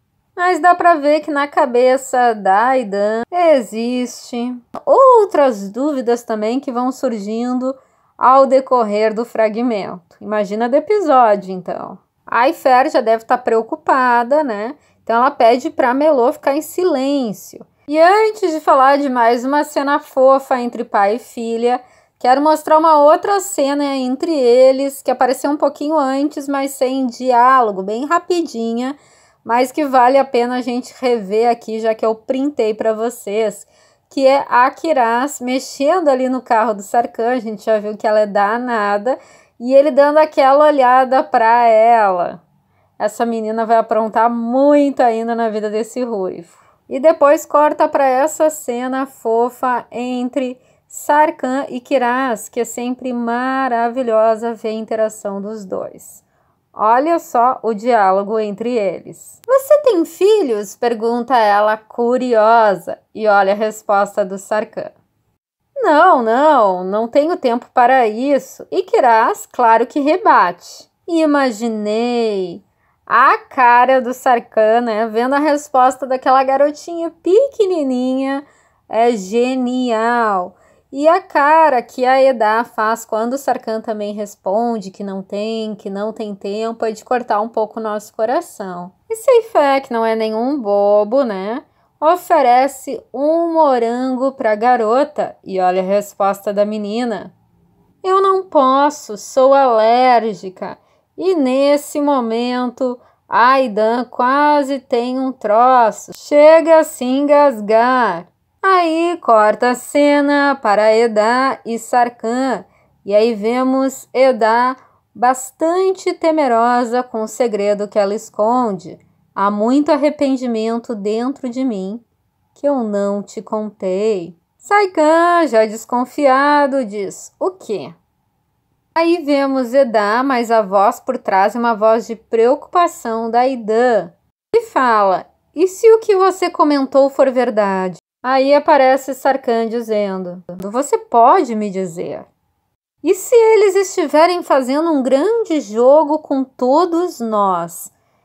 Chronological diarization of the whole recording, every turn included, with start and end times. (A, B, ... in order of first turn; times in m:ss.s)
0:00.4-0:42.4 A
0:43.0-0:56.2 A
0:56.7-1:04.9 A
1:05.8-1:37.3 A
1:38.0-2:02.0 A
2:02.6-2:07.9 A
2:09.0-2:22.3 A
2:23.0-2:27.9 A